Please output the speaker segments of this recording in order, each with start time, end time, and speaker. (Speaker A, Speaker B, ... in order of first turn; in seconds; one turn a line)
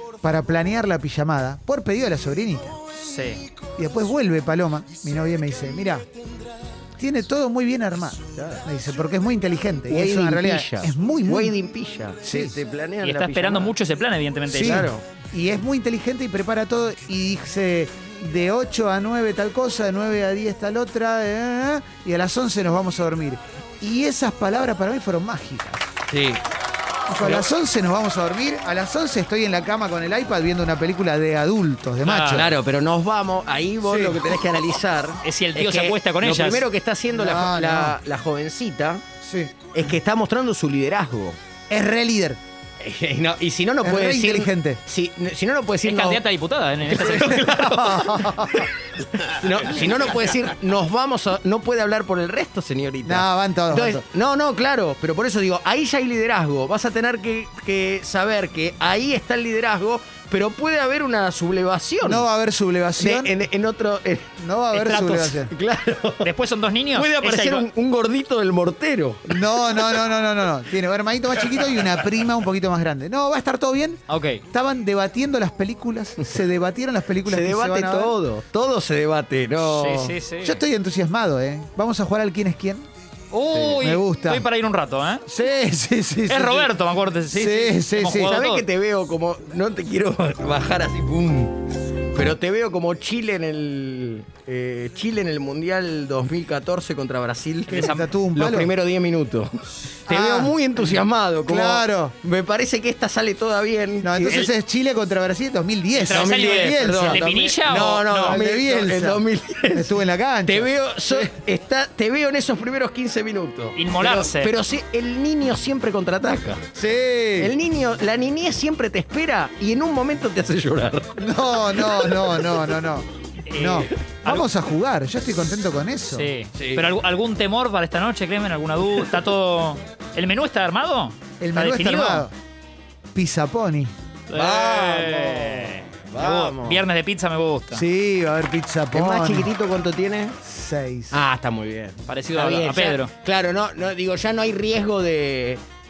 Speaker A: 0.2-2.8
Speaker B: 3.0-3.4
Speaker A: 3.8-6.1
Speaker A: 7.0-11.6
Speaker C: 8.3-8.6
Speaker C: 9.9-13.7
Speaker A: 12.2-12.6
Speaker B: 13.0-14.9
Speaker A: 14.5-25.9
Speaker C: 14.5-15.0
Speaker C: 26.1-26.4
Speaker A: 27.1-32.5
Speaker C: 27.2-27.5
Speaker B: 32.0-32.5
Speaker C: 32.3-39.0
Speaker A: 33.8-34.2
Speaker B: 35.2-36.7
Speaker A: 37.1-38.0
Speaker A: 39.2-39.5
Speaker C: 39.7-41.4
Speaker A: 41.7-42.4
Speaker C: 42.8-46.2
Speaker A: 43.8-44.8
Speaker B: 45.8-47.7
Speaker C: 46.9-48.6
Speaker A: 47.1-48.7
Speaker C: 49.2-62.2
Speaker A: 53.0-54.0
Speaker A: 62.0-63.3
Speaker C: 63.0-64.3
Speaker A: 64.4-65.5
Speaker B: 64.7-65.3
Speaker C: 64.9-66.3
Speaker B: 66.2-67.7
Speaker C: 66.9-69.4
Speaker A: 69.3-78.1
Speaker B: 74.1-74.4
Speaker C: 77.2-80.2
Speaker B: 79.6-80.6
Speaker A: 80.4-82.9
Speaker B: 83.3-85.2
Speaker A: 83.7-84.4
Speaker A: 85.2-86.7
Speaker B: 86.3-88.6
Speaker A: 87.3-88.3
Speaker C: 88.1-91.6
Speaker C: 92.1-104.5
Speaker B: 97.7-98.1
Speaker A: 97.7-98.7
Speaker A: 100.1-100.6
Speaker A: 101.4-102.1
Speaker A: 104.0-107.2
Speaker B: 105.9-108.4
Speaker C: 106.1-116.6
Speaker A: 107.7-111.3
Speaker B: 113.8-114.5
Speaker A: 116.7-117.5
Speaker C: 117.4-121.2
Speaker A: 121.2-126.3
Speaker C: 121.7-122.4
Speaker B: 123.5-124.5
Speaker B: 126.1-132.3
Speaker C: 126.5-126.9
Speaker A: 131.4-132.3
Speaker A: 133.1-133.9
Speaker B: 134.3-137.8
Speaker C: 134.3-136.8
Speaker A: 137.7-139.5
Speaker C: 138.9-140.4
Speaker A: 140.4-141.2
Speaker C: 141.1-145.6
Speaker B: 142.1-143.1